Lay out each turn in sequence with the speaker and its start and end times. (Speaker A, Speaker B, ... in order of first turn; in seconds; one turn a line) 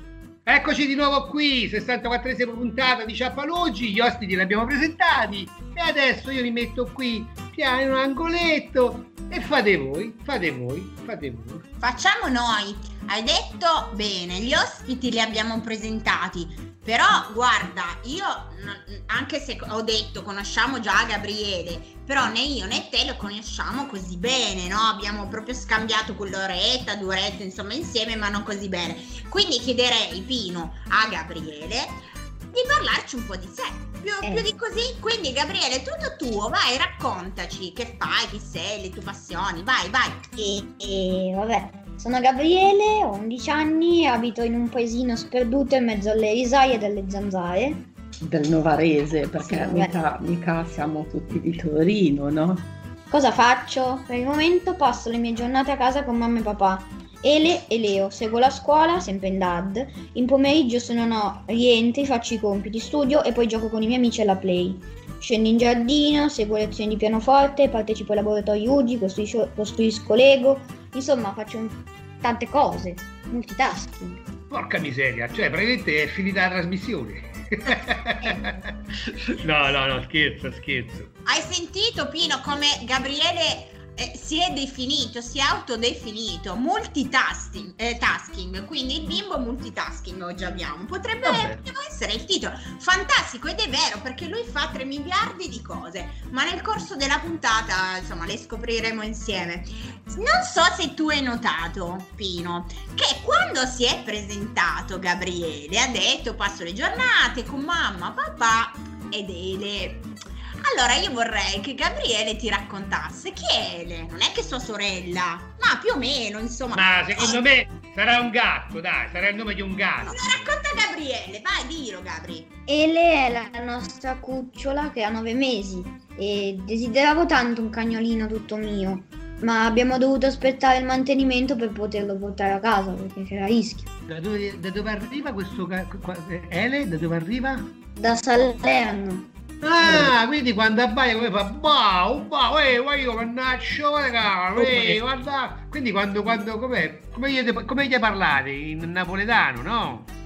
Speaker A: 0.5-11.7
Speaker B: 11.8-40.2
Speaker C: 34.2-34.5
Speaker C: 40.4-47.8
Speaker D: 48.2-52.7
Speaker C: 49.5-49.9
Speaker C: 53.1-74.2
Speaker A: 74.5-81.1
Speaker B: 81.2-110.1
Speaker A: 91.2-91.6
Speaker B: 110.6-117.4
Speaker A: 116.7-120.5
Speaker B: 120.0-122.5
Speaker C: 122.7-133.9
Speaker A: 134.1-137.7
Speaker C: 138.0-139.3
Speaker A: 139.6-150.1